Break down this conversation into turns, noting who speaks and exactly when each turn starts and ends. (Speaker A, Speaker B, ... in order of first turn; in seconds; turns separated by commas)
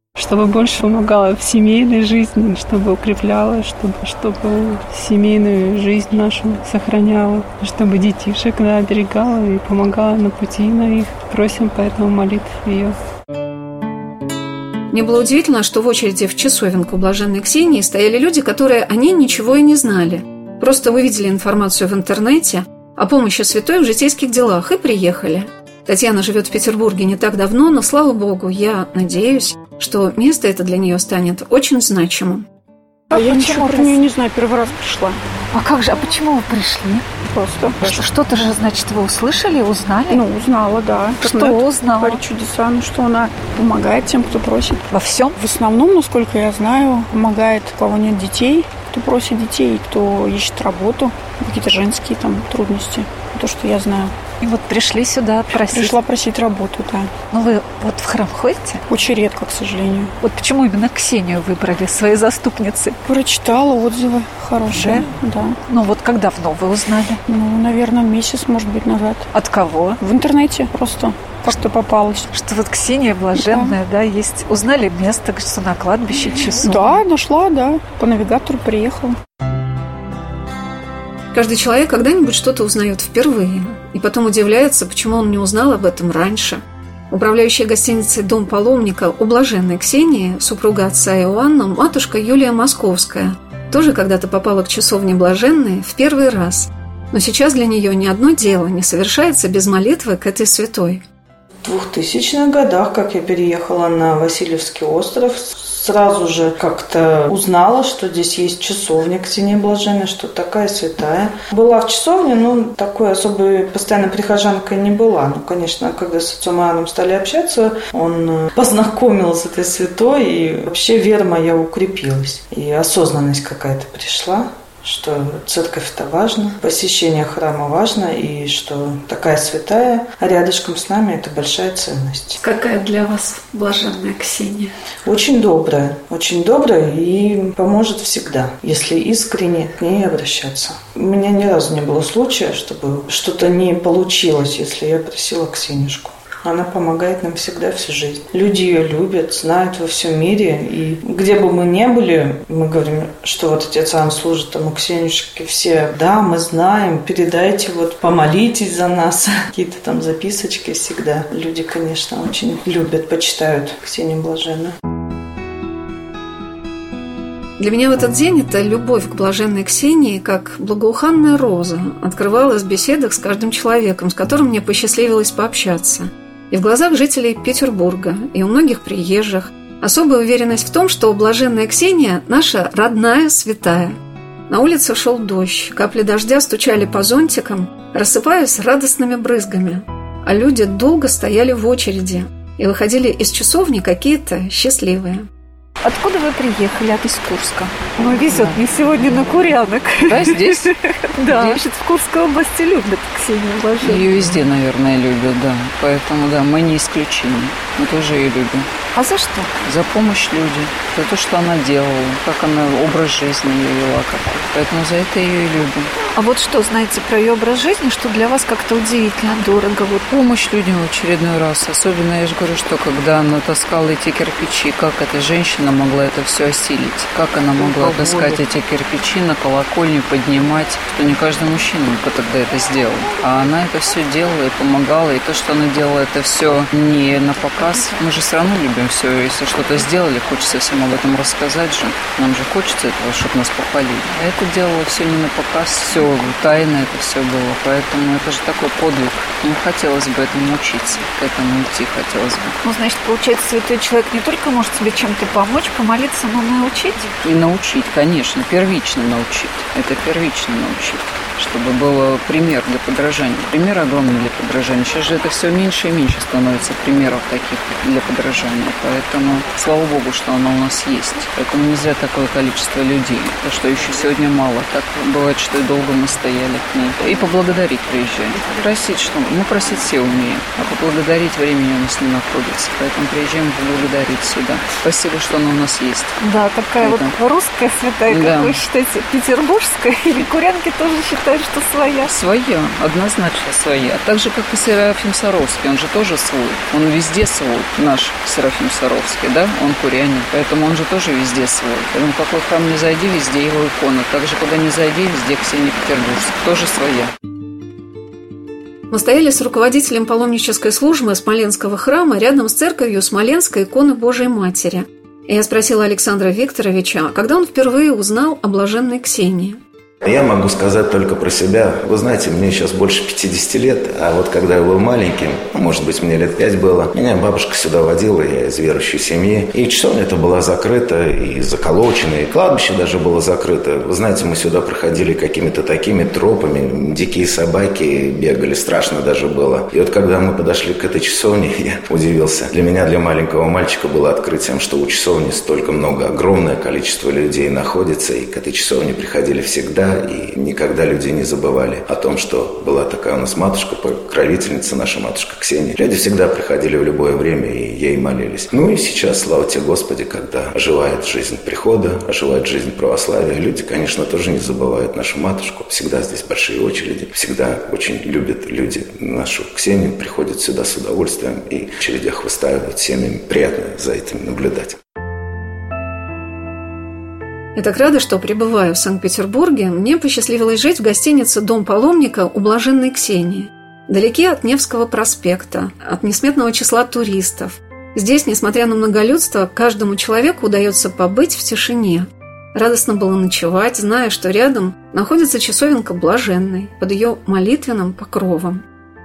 Speaker A: 0.2-12.9, Speaker B: 14.9-32.5, Speaker C: 33.1-34.0, Speaker D: 33.1-35.2, Speaker C: 35.5-37.1, Speaker D: 37.3-38.0, Speaker C: 37.8-40.2, Speaker D: 40.1-44.8, Speaker C: 41.2-42.2, Speaker C: 44.9-45.4, Speaker D: 45.4-54.1, Speaker C: 54.4-56.0, Speaker D: 55.5-57.1, Speaker C: 57.3-58.8, Speaker D: 58.9-60.1, Speaker C: 60.2-63.0, Speaker D: 63.1-65.6, Speaker C: 64.7-65.1, Speaker C: 65.7-67.2, Speaker D: 67.3-69.3, Speaker C: 69.3-70.0, Speaker D: 70.0-72.3, Speaker C: 72.3-76.9, Speaker D: 73.4-73.8, Speaker D: 76.6-79.2, Speaker B: 81.3-101.0, Speaker E: 101.6-132.4, Speaker C: 132.4-134.7, Speaker E: 135.1-164.7, Speaker B: 167.6-184.0, Speaker B: 184.5-195.3, Speaker C: 195.8-204.4, Speaker F: 200.1-200.7, Speaker F: 201.3-201.6, Speaker F: 203.8-208.7, Speaker C: 208.9-209.5, Speaker F: 209.7-215.9, Speaker C: 216.2-220.2, Speaker F: 220.1-252.6, Speaker C: 252.6-257.1, Speaker F: 257.2-286.1, Speaker C: 286.2-292.1, Speaker F: 286.8-287.2, Speaker F: 288.1-288.6, Speaker F: 292.1-307.1, Speaker B: 308.9-319.6, Speaker G: 320.0-374.8, Speaker B: 377.6-398.6